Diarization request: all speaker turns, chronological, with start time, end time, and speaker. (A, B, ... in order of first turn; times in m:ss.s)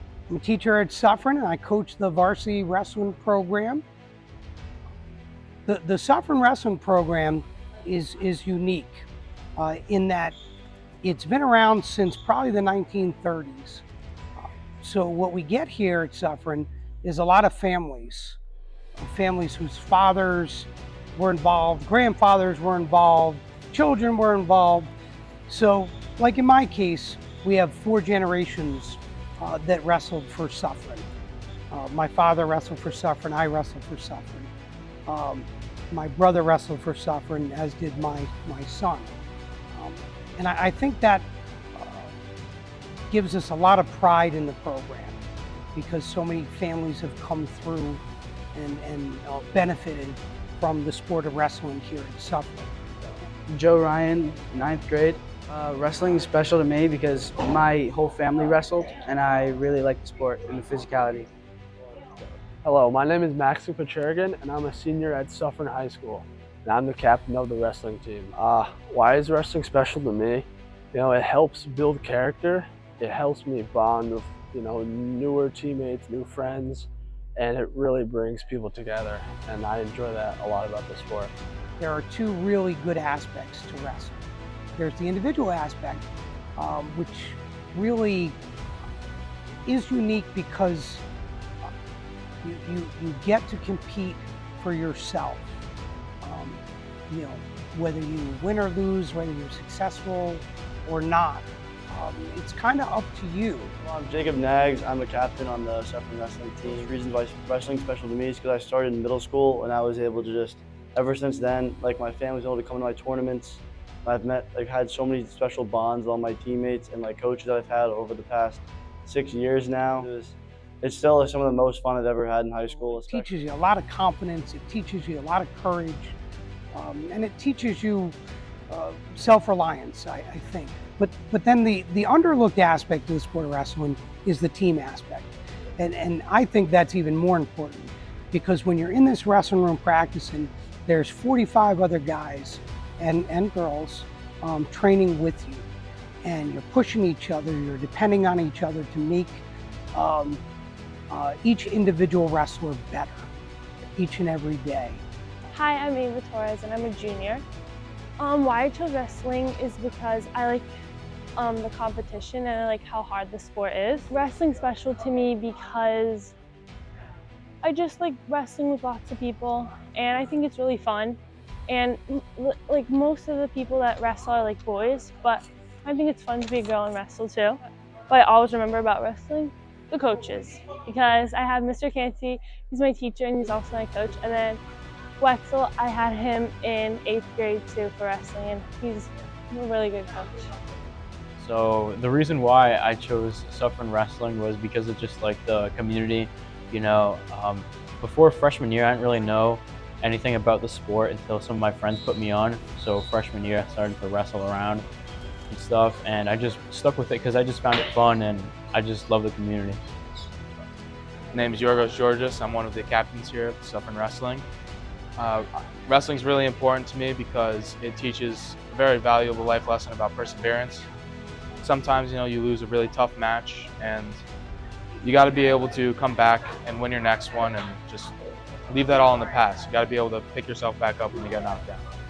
0:00.3-0:03.8 A
0:05.7-0:10.4 A
0:11.0-0:13.8 A
0:14.4-0:18.4 A
0:19.0-0:24.9 A
0:25.5-0:31.1 A
0:31.7-0:34.5 A
0:35.1-0:39.1 A
0:39.7-0:42.1 A
0:43.1-0:45.2 A
0:45.8-0:48.0 A
0:48.6-0:52.7 A
0:53.5-1:01.3 B
1:02.6-1:21.3 C
1:21.8-1:24.2 A
1:24.8-1:26.0 A
1:26.6-1:28.4 A
1:29.7-1:31.0 A
1:32.4-1:35.6 A
1:36.2-1:43.7 A
1:43.8-2:03.3 D
2:02.7-2:06.2 A
2:06.7-2:08.2 A
2:08.7-2:25.7 A
2:26.2-2:30.4 A
2:31.1-2:33.3 A
2:34.0-2:35.0 A
2:35.5-2:37.4 E
2:38.2-2:40.7 E
2:41.4-2:46.3 E
2:47.6-2:57.6 E
2:58.1-3:04.6 E
3:05.2-3:10.5 E
3:11.4-3:24.9 F
3:25.5-3:29.8 F
3:31.3-3:34.5 G
3:35.2-3:40.9 G
3:41.6-3:44.2 G
3:45.0-3:48.1 G
3:48.7-3:51.8 G